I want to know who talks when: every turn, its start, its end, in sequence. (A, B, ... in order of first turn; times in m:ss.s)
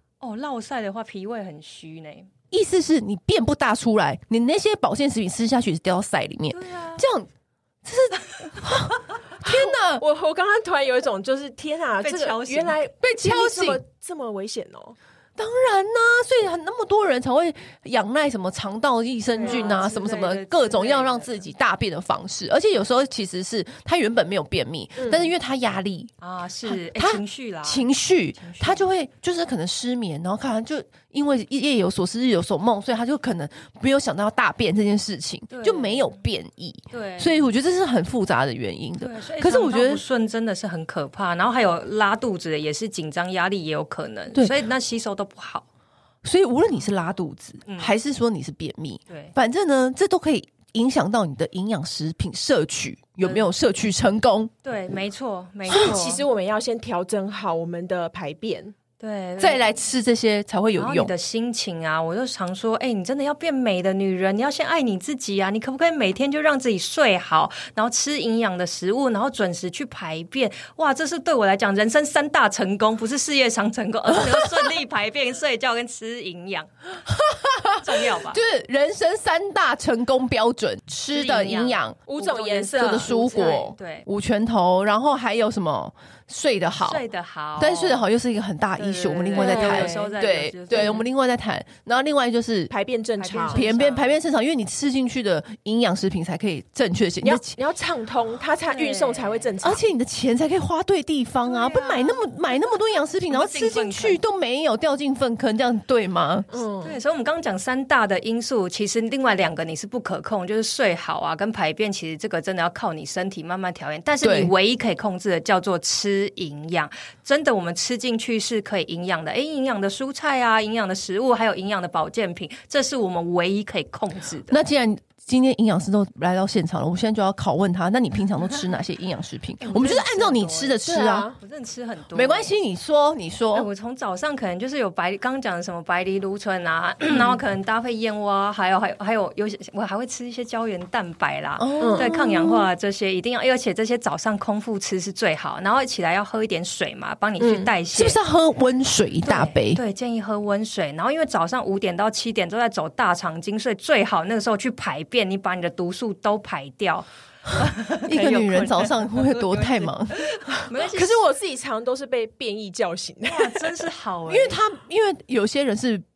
0:00.2-0:02.3 A
0:02.5-0:07.3 B
0:06.5-0:07.0 A
0:07.8-0:10.0 B
0:09.4-0:15.0 C
0:12.0-0:12.8 A
0:13.0-0:13.8 B
0:15.4-0:26.1 B
0:19.4-0:19.8 C
0:19.4-0:21.4 A
0:25.0-0:25.3 C
0:26.2-0:28.9 A
0:26.7-0:40.0 B
0:35.5-0:36.2 A
0:36.9-0:37.5 A
0:39.0-0:45.6 A
0:46.2-0:54.5 B
0:47.6-0:47.9 A
0:49.1-0:49.3 A
0:53.2-0:53.5 A
0:54.6-0:56.2 A
0:55.7-0:55.9 B
0:55.7-0:58.7 C
0:59.0-0:59.7 A
0:59.4-1:01.1 B
1:00.8-1:16.7 A
1:14.1-1:14.7 B
1:17.0-1:22.0 B
1:17.8-1:18.4 A
1:21.1-1:24.1 A
1:22.1-1:23.6 C
1:22.8-1:27.0 B
1:26.8-1:28.0 A
1:27.6-1:32.7 B
1:28.8-1:31.1 A
1:29.4-1:30.1 C
1:32.7-1:33.7 C
1:33.2-1:34.2 A
1:33.5-1:37.6 B
1:37.2-1:39.8 C
1:38.7-1:39.5 A
1:39.6-1:46.5 B
1:41.5-1:42.2 A
1:43.3-1:44.2 A
1:46.5-1:47.0 C
1:46.8-2:04.6 A
1:54.2-1:54.5 B
2:04.5-2:11.3 B
2:09.6-2:10.8 A
2:10.8-2:11.4 C
2:11.4-2:12.5 A
2:12.1-2:13.7 B
2:13.5-2:28.2 A
2:21.6-2:22.7 B
2:21.8-2:22.1 C
2:27.4-2:27.7 C
2:28.0-2:29.8 B
2:29.2-2:41.2 A
2:38.1-2:40.5 B
2:40.8-2:43.6 C
2:43.2-2:44.6 A
2:44.3-2:46.0 B